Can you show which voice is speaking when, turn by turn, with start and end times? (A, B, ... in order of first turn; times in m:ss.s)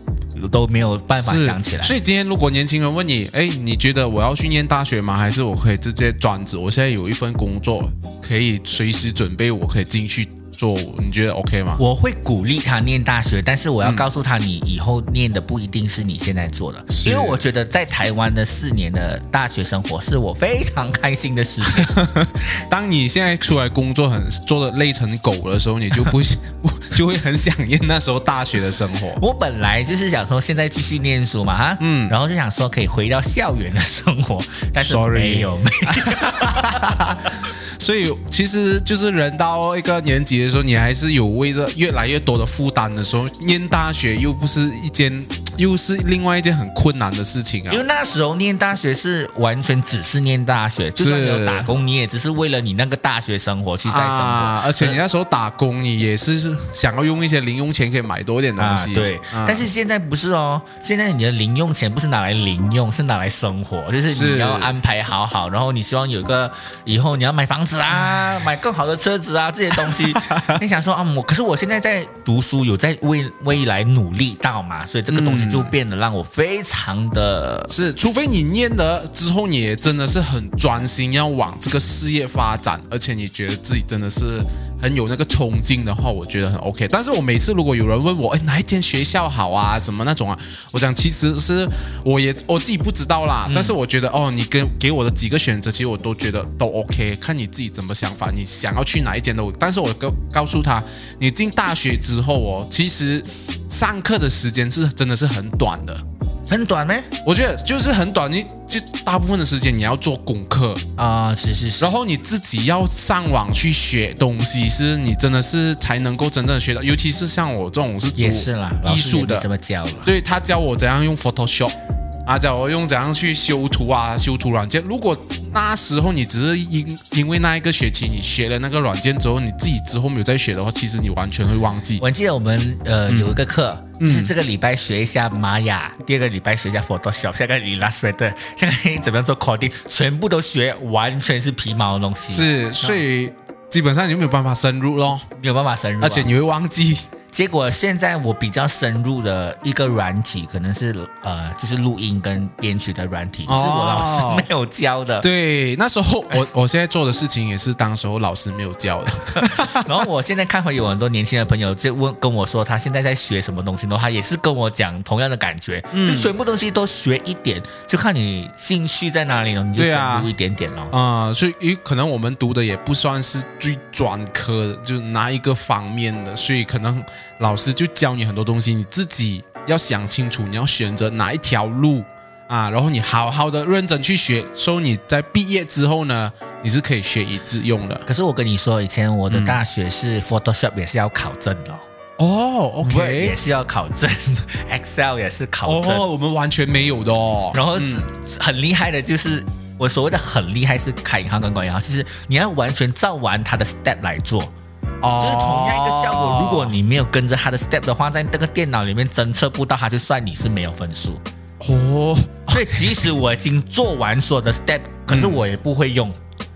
0:00.3-0:02.0 A
0:01.2-0:11.8 B
0:11.8-0:21.9 A
0:13.8-0:14.1 B
0:16.9-0:17.4 B
0:21.6-0:29.2 B
0:29.2-0:37.2 A
0:31.8-0:32.1 B
0:34.8-0:47.8 B
0:47.7-0:55.0 A
0:51.0-0:51.7 B
0:53.8-0:59.6 B
0:58.6-1:17.7 A
1:04.1-1:04.8 B
1:07.9-1:08.3 B
1:09.8-1:10.6 B
1:15.1-1:15.7 B
1:17.7-1:46.0 B
1:33.4-1:33.8 A
1:46.5-1:47.1 A
1:47.2-1:50.8 B
1:51.0-1:51.9 A
1:51.8-1:59.5 B
1:58.2-2:00.1 A
2:00.0-2:12.0 B
2:12.0-2:23.0 A
2:13.1-2:13.4 B
2:14.0-2:14.3 B
2:22.3-2:25.3 B
2:25.4-2:26.3 A
2:26.0-2:27.1 B
2:27.3-2:35.3 A
2:33.5-2:34.5 B
2:35.2-2:40.0 B
2:39.4-2:50.9 A
2:45.9-2:46.3 B
2:49.8-2:50.3 B
2:50.9-3:08.0 B
3:08.0-3:11.8 A
3:09.3-3:09.6 B
3:12.2-3:13.4 B
3:12.8-3:16.0 A
3:15.6-3:18.0 B
3:17.5-3:24.5 A
3:25.0-3:26.8 B
3:25.2-3:31.2 A
3:31.6-3:33.0 B
3:32.5-3:36.2 A
3:35.1-3:35.4 B